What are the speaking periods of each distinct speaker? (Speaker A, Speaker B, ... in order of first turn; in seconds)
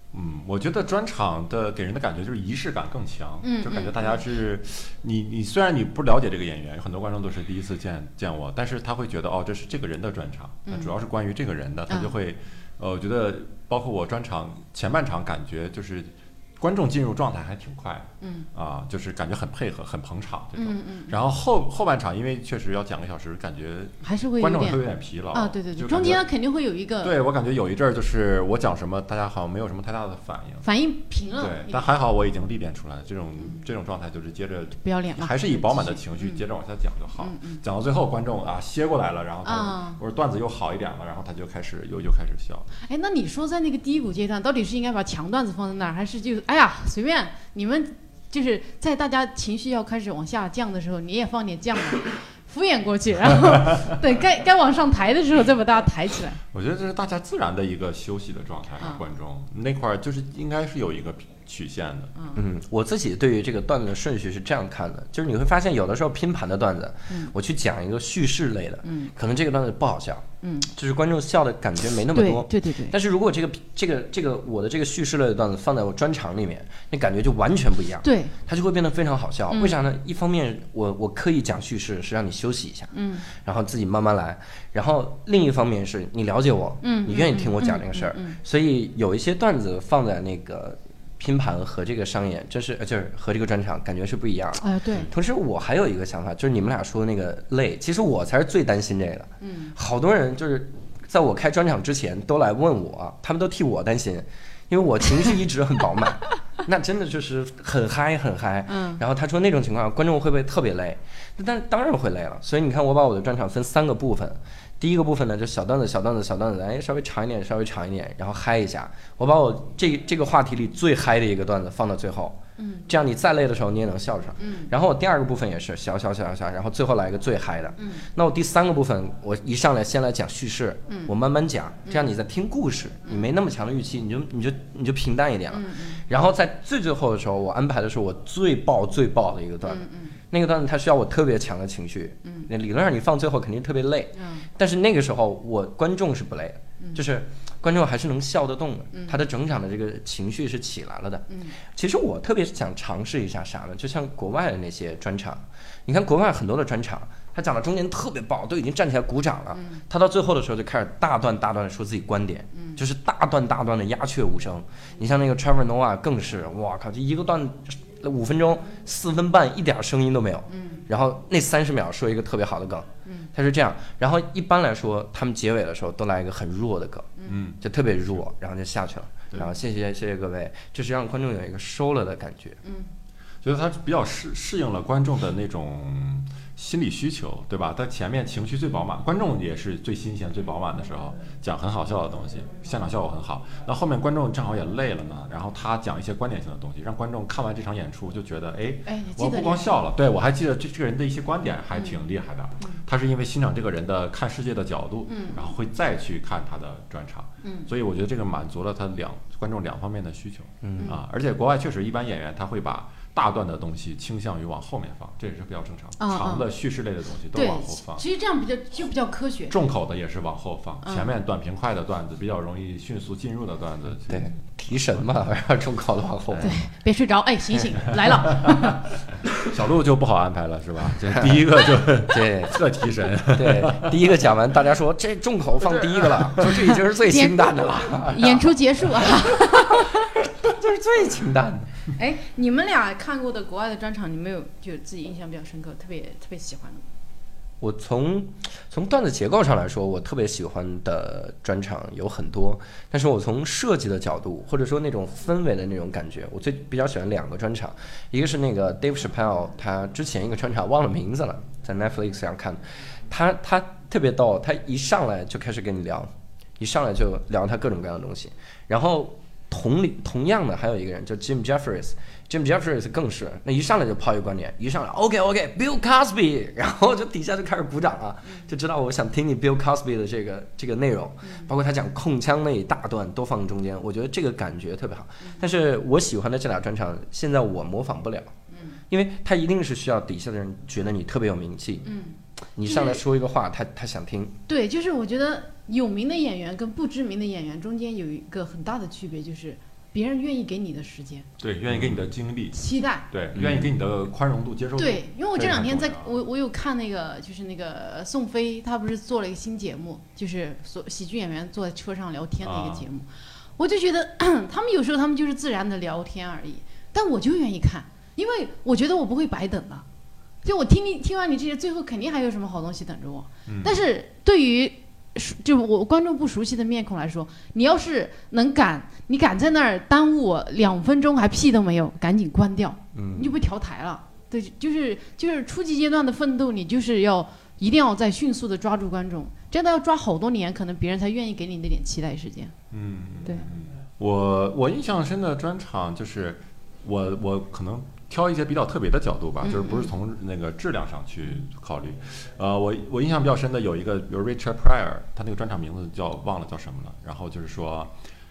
Speaker A: 0.1-26.3, 27.0-30.7, 31.4-42.7, 56.5-62.1, 177.3-178.2, 183.4-218.0, 219.5-225.0, 229.4-234.1, 235.6-236.6, 301.4-306.1, 312.4-312.9, 323.5-323.8, 342.7-357.9
Speaker B: 3.4-4.2, 18.2-18.5, 20.6-21.1, 24.0-24.8, 25.3-27.1, 30.6-31.9, 34.8-36.4, 37.2-37.6, 39.5-40.0, 42.9-56.4, 68.8-69.1, 70.4-70.7, 72.1-73.0, 78.0-78.3, 79.5-79.8, 82.9-83.2, 86.8-88.4, 94.6-95.1, 99.4-99.7, 108.7-109.0, 122.6-122.9, 124.4-124.7, 127.8-128.0, 131.9-132.1, 135.5-136.0, 139.7-140.2, 144.2-144.5, 148.9-149.2, 151.3-151.5, 159.5-159.8, 170.5-170.8, 198.9-199.7, 201.7-202.0, 205.1-205.5, 207.4-207.7, 216.0-216.5, 217.3-219.5, 220.8-221.1, 226.4-228.8, 237.1-240.0, 242.0-246.8, 288.5-288.8, 291.9-293.0, 294.5-301.2, 302.5-303.1, 304.8-313.1, 313.6-319.9, 320.4-342.5, 349.4-349.9
Speaker C: 62.4-182.6, 210.6-210.9, 224.1-226.5, 231.1-231.5, 232.1-232.6, 233.3-241.7, 247.6-288.3, 288.9-291.9, 292.6-294.4, 301.7-302.1, 303.4-303.7, 332.9-333.3